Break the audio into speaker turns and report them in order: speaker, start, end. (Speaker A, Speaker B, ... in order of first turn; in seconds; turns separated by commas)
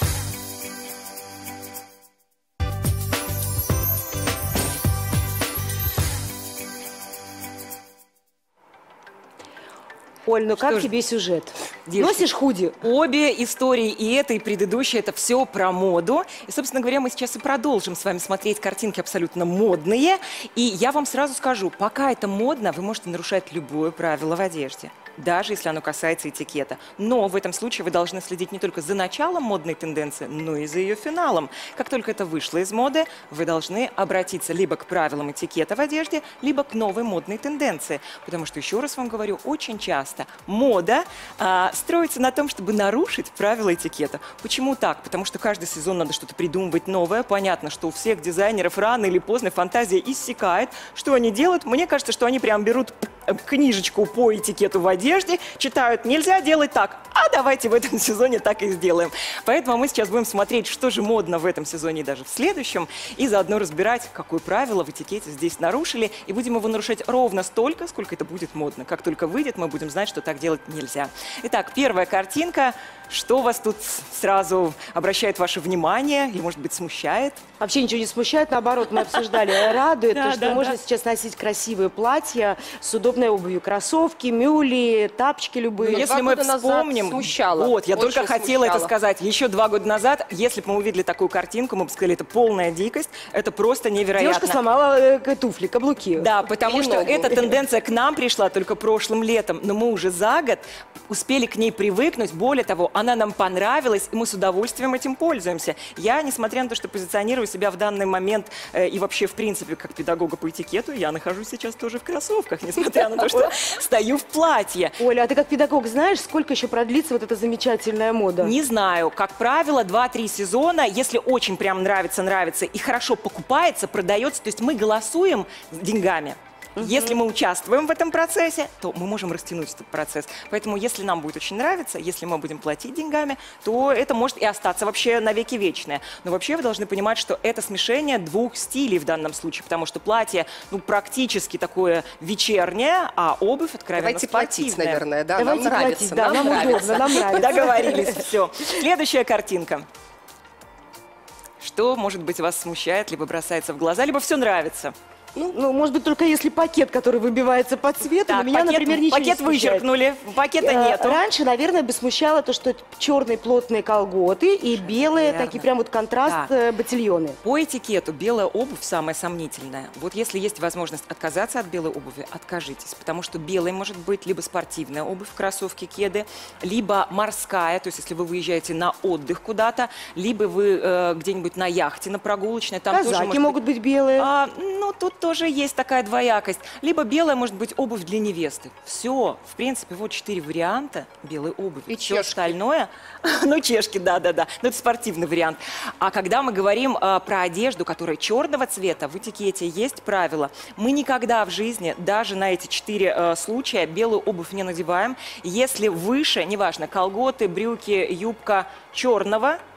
Speaker A: 10.2-12.8, Speaker B: 10.6-10.9, Speaker B: 11.9-12.3, Speaker B: 12.8-77.4, Speaker A: 77.6-86.1, Speaker B: 80.1-80.8, Speaker C: 85.8-88.9, Speaker B: 85.9-94.6, Speaker A: 94.1-96.3, Speaker B: 96.2-115.0, Speaker C: 96.6-97.1, Speaker A: 97.0-97.5, Speaker A: 113.2-113.5, Speaker A: 115.0-118.5, Speaker B: 118.4-145.0, Speaker A: 126.8-127.2, Speaker C: 143.9-147.7, Speaker A: 145.3-148.2, Speaker B: 147.3-149.9, Speaker B: 151.6-154.9, Speaker A: 155.5-159.8, Speaker B: 158.2-161.2, Speaker A: 160.6-167.4, Speaker B: 164.7-165.7, Speaker B: 166.2-166.5, Speaker B: 167.4-183.6, Speaker A: 182.9-184.3, Speaker B: 184.2-209.6, Speaker C: 191.9-192.5